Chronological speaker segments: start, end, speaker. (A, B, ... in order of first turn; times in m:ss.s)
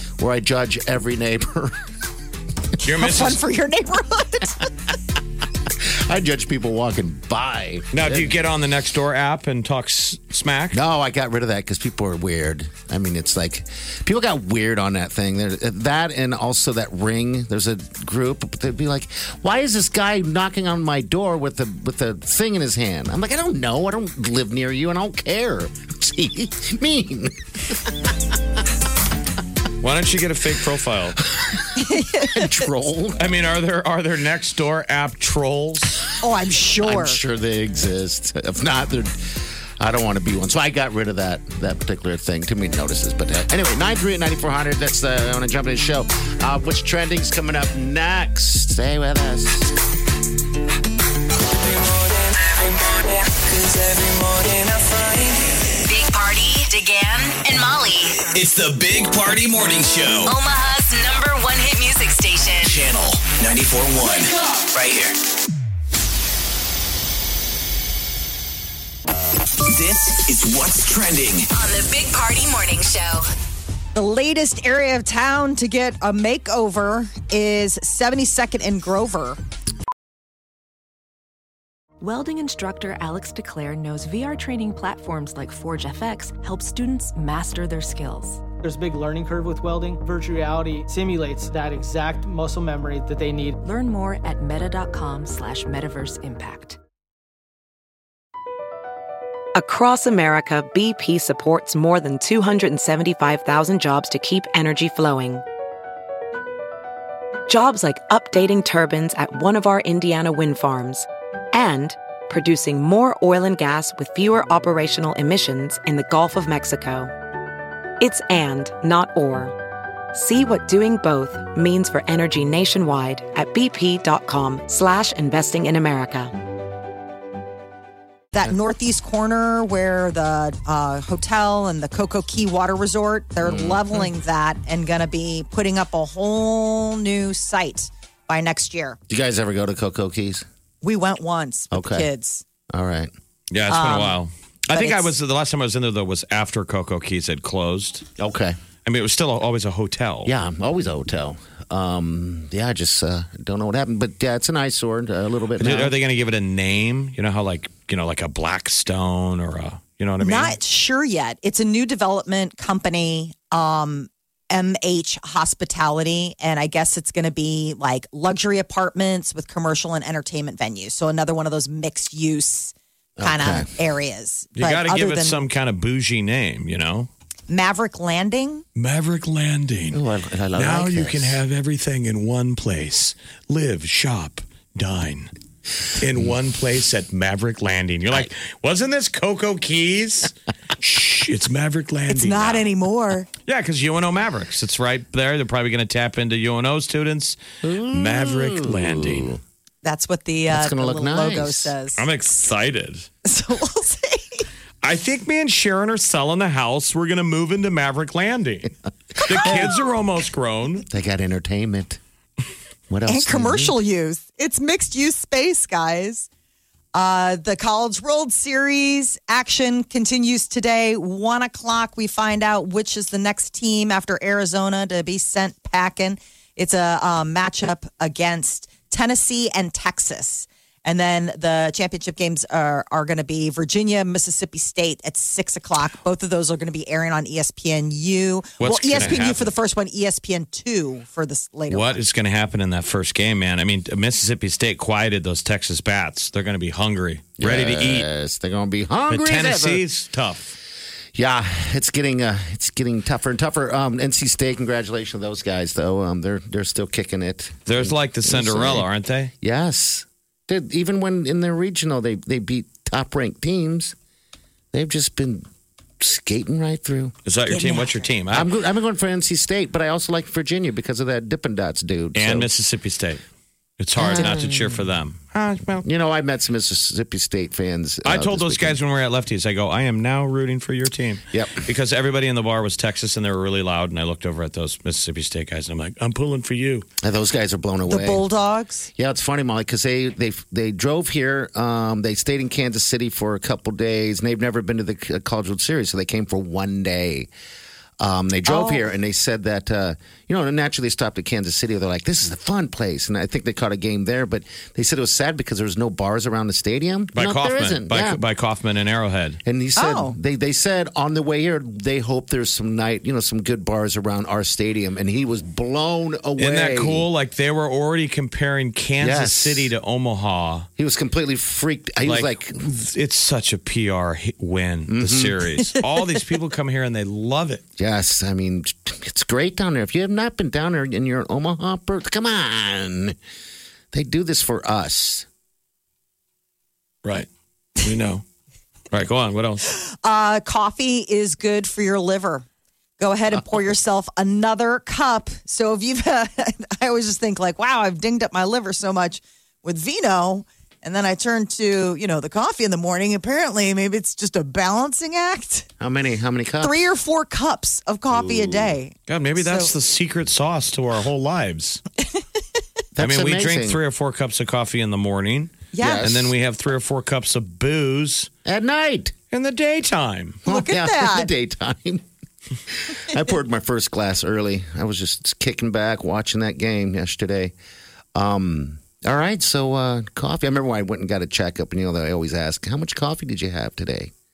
0:00.2-0:01.8 A
0:02.8-0:03.4 B
0:02.8-0:04.7 C
0:05.8-0:08.4 A
0:07.9-0:10.8 B
0:10.7-0:28.0 A
0:29.8-0:31.2 B
0:31.8-0:32.6 C
0:31.9-0:33.3 A
0:33.2-0:36.0 B
0:36.2-0:37.2 C
0:36.8-0:49.7 A
0:51.7-0:55.3 D
0:55.8-0:58.2 E
0:58.3-1:00.4 D
1:00.2-1:02.9 E
1:02.6-1:05.2 D
1:09.6-1:11.5 D
1:11.5-1:13.3 E
1:14.0-1:19.4 C
1:22.0-1:28.4 F
1:28.6-1:33.6 G
1:33.6-1:36.8 F
1:39.6-1:45.4 H
1:47.5-1:57.1 H
1:58.0-1:59.6 H
2:00.1-2:06.3 H
2:08.3-2:19.0 C
2:13.4-2:14.0 A
2:19.1-2:20.4 A
2:20.8-2:22.4 C
2:21.7-2:22.1 A
2:22.7-2:23.1 A
2:23.5-2:28.0 B
2:23.7-2:24.2 C
2:24.7-2:25.1 C
2:28.2-2:28.6 A
2:28.8-2:30.3 B
2:30.2-2:35.9 A
2:35.6-2:40.6 B
2:40.2-2:55.4 C
2:53.2-2:53.7 A
2:54.6-2:57.1 B
2:57.5-2:58.6 C
2:58.8-3:00.0 B
2:59.9-3:01.4 A
3:00.6-3:05.3 B
3:06.0-3:12.7 B
3:12.1-3:13.3 C
3:13.5-3:19.4 B
3:17.6-3:19.4 A
3:19.8-3:22.0 C
3:20.5-3:21.7 A
3:22.0-3:23.1 B
3:23.2-3:24.4 C
3:24.8-3:30.8 B
3:29.3-3:29.7 A
3:30.9-3:32.0 A
3:32.9-3:33.7 A
3:33.1-3:36.3 C
3:36.9-4:02.0 C
3:58.6-3:59.5 B
4:01.7-4:08.1 B
4:07.4-4:09.8 A
4:09.1-4:10.6 B
4:11.1-4:18.9 A
4:17.7-4:19.3 B
4:19.4-4:24.0 A
4:24.7-4:25.5 A
4:26.0-4:27.1 A
4:27.2-4:28.5 B
4:27.5-4:28.0 C
4:28.3-4:32.5 A
4:32.1-4:33.2 B
4:33.8-4:35.9 B
4:34.0-4:34.7 A
4:34.2-4:34.4 C
4:35.8-4:38.8 A
4:38.0-4:46.9 B
4:41.3-4:41.6 A
4:47.0-4:48.2 A
4:47.9-4:48.9 C
4:49.0-4:57.3 A
4:58.0-5:08.2 A
4:58.4-4:58.9 C
5:07.1-5:09.4 B
5:09.4-5:17.1 A
5:09.8-5:10.2 C
5:16.4-5:20.7 B
5:19.0-5:19.7 A
5:20.8-5:22.8 A
5:22.0-5:27.6 B
5:24.9-5:25.4 A
5:27.8-5:33.2 A
5:33.9-5:35.3 A
5:37.8-5:38.2 B
5:38.9-5:39.7 B
5:39.7-5:42.4 C
5:43.0-5:55.7 C
5:55.8-5:56.8 A
5:56.6-5:59.7 C
5:58.1-5:58.8 A
5:59.1-6:01.8 B
6:03.0-6:03.8 A
6:03.0-6:08.3 B
6:05.7-6:06.0 C
6:05.8-6:06.3 A
6:08.4-6:09.1 A
6:09.3-6:10.4 B
6:10.4-6:12.0 A
6:10.4-6:11.3 C
6:12.7-6:17.5 A
6:18.1-6:24.1 A